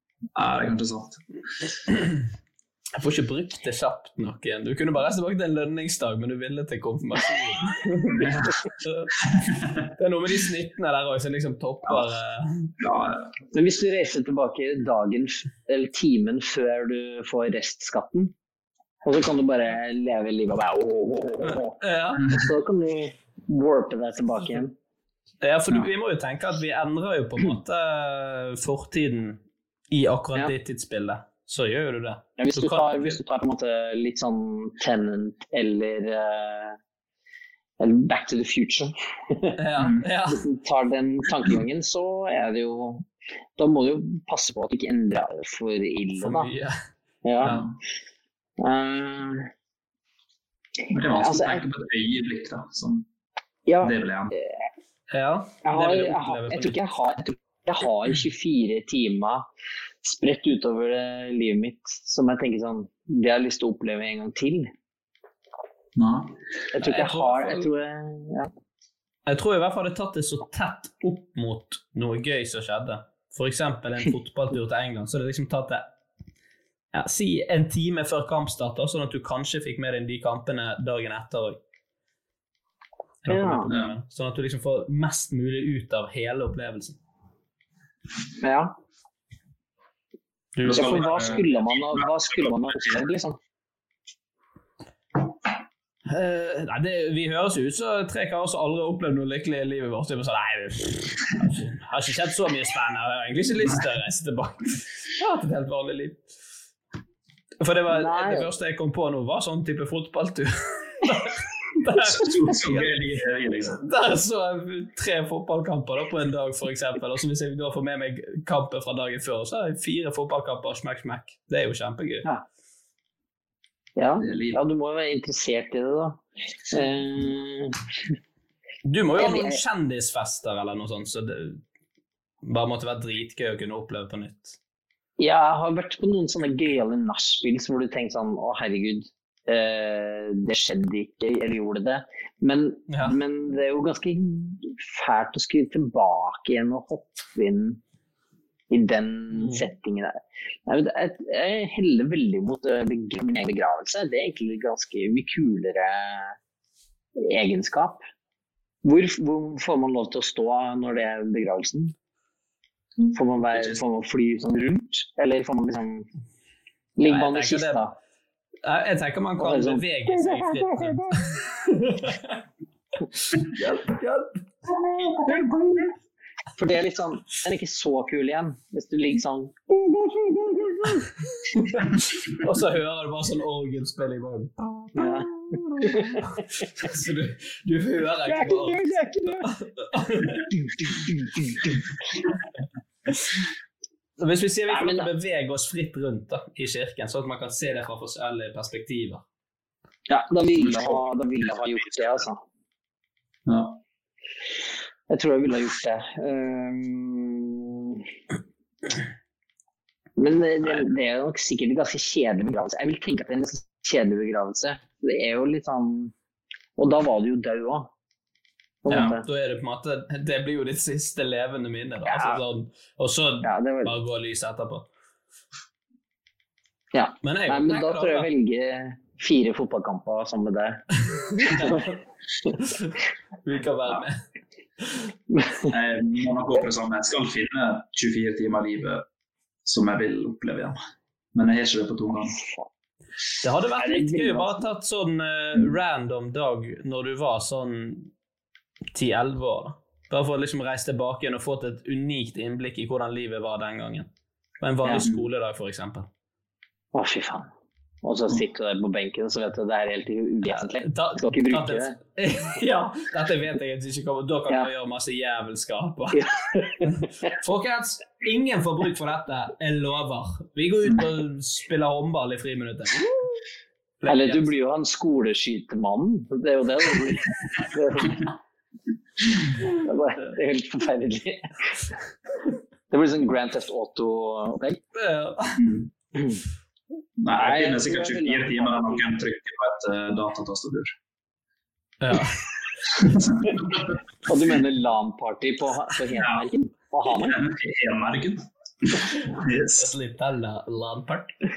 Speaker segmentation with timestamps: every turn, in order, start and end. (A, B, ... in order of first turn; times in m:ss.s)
0:00.4-0:01.2 A
0:03.0-0:08.2 B
0:08.1-0:08.6 A
0:08.8-0:09.1 B
0:09.4-0:09.6 A
0:10.0-0:12.7 B
0:11.9-0:12.1 A
0:12.8-0:13.4 A
0:13.5-0:18.3 C
0:19.0-0:21.8 C
0:21.8-0:22.3 B
0:22.3-0:24.7 C
0:25.4-0:33.2 B
0:32.4-0:36.8 C
0:37.8-0:39.6 C
0:39.6-0:40.4 B
0:39.8-0:40.0 A
0:40.3-0:46.5 C
0:46.2-0:46.8 B
0:47.2-0:47.5 C
0:47.4-0:47.8 A
0:48.6-0:49.5 C
0:50.9-0:53.0 A
0:51.1-0:51.6 C
0:53.7-0:54.5 C
0:53.8-0:54.3 A
0:55.1-0:56.9 B
0:55.6-0:59.4 C
1:00.0-1:04.7 C
1:06.0-1:06.3 A
1:06.7-1:08.5 C
1:06.8-1:07.7 B
1:09.2-1:15.9 B
1:16.9-1:21.6 B
1:23.2-1:27.0 B
1:23.3-1:23.7 C
1:23.7-1:23.9 A
1:28.4-1:28.7 C
1:30.6-1:31.4 B
1:30.6-1:33.0 A
1:30.7-1:33.4 C
1:36.1-1:46.2 B
1:47.6-1:52.9 B
1:47.9-1:48.5 C
1:52.0-1:53.8 A
1:53.8-2:02.2 B
2:04.0-2:07.8 C
2:04.2-2:04.6 A
2:08.8-2:11.6 B
2:09.2-2:09.6 C
2:12.4-2:14.6 B
2:15.2-2:27.8 C
2:22.9-2:23.2 B
2:28.7-2:36.3 C
2:37.2-2:38.0 C
2:38.8-2:41.9 C
2:43.0-2:43.8 A
2:43.1-2:46.1 C
2:47.0-2:47.9 C
2:47.0-2:47.8 B
2:48.6-2:52.3 B
2:49.4-2:50.9 C
2:53.4-2:54.4 B
2:56.6-3:01.0 C
3:01.6-3:10.5 B
3:05.0-3:06.2 C
3:08.3-3:09.5 C
3:10.8-3:11.6 C
3:14.2-3:19.2 B
3:14.7-3:15.1 C
3:20.1-3:22.4 C
3:20.5-3:21.1 A
3:21.7-3:22.2 A
3:23.5-3:23.8 A
3:25.1-3:28.0 C
3:30.2-3:36.1 C
3:36.8-3:37.9 C
3:38.8-3:39.2 C
3:38.9-3:44.9 B
3:42.1-3:42.4 C
3:43.4-3:43.9 C
3:46.9-3:50.8 C
3:47.2-3:48.3 B
3:51.2-3:51.9 B
3:51.5-3:51.8 C
3:52.7-3:52.9 B
3:53.4-3:54.1 B
3:55.3-3:55.7 C
3:55.7-3:59.0 A
3:59.6-4:00.8 A
4:01.3-4:02.4 A
4:02.3-4:02.7 C
4:03.4-4:08.1 B
4:03.8-4:04.6 C
4:08.9-4:14.1 B
4:14.6-4:16.1 B
4:16.9-4:17.5 C
4:18.0-4:22.0 C
4:20.8-4:26.2 B
4:26.1-4:27.3 C
4:26.8-4:33.3 B
4:34.0-4:34.5 B
4:34.1-4:38.3 C
4:39.7-4:41.7 C
4:42.9-4:44.8 C
4:44.9-4:45.6 B
4:45.6-4:45.9 A
4:47.2-4:50.9 A
4:47.3-4:49.1 C
4:52.0-4:52.4 B
4:52.8-4:54.0 A
4:54.2-4:57.4 C
4:56.2-4:56.5 A
4:57.2-4:59.9 A
4:59.8-5:01.4 B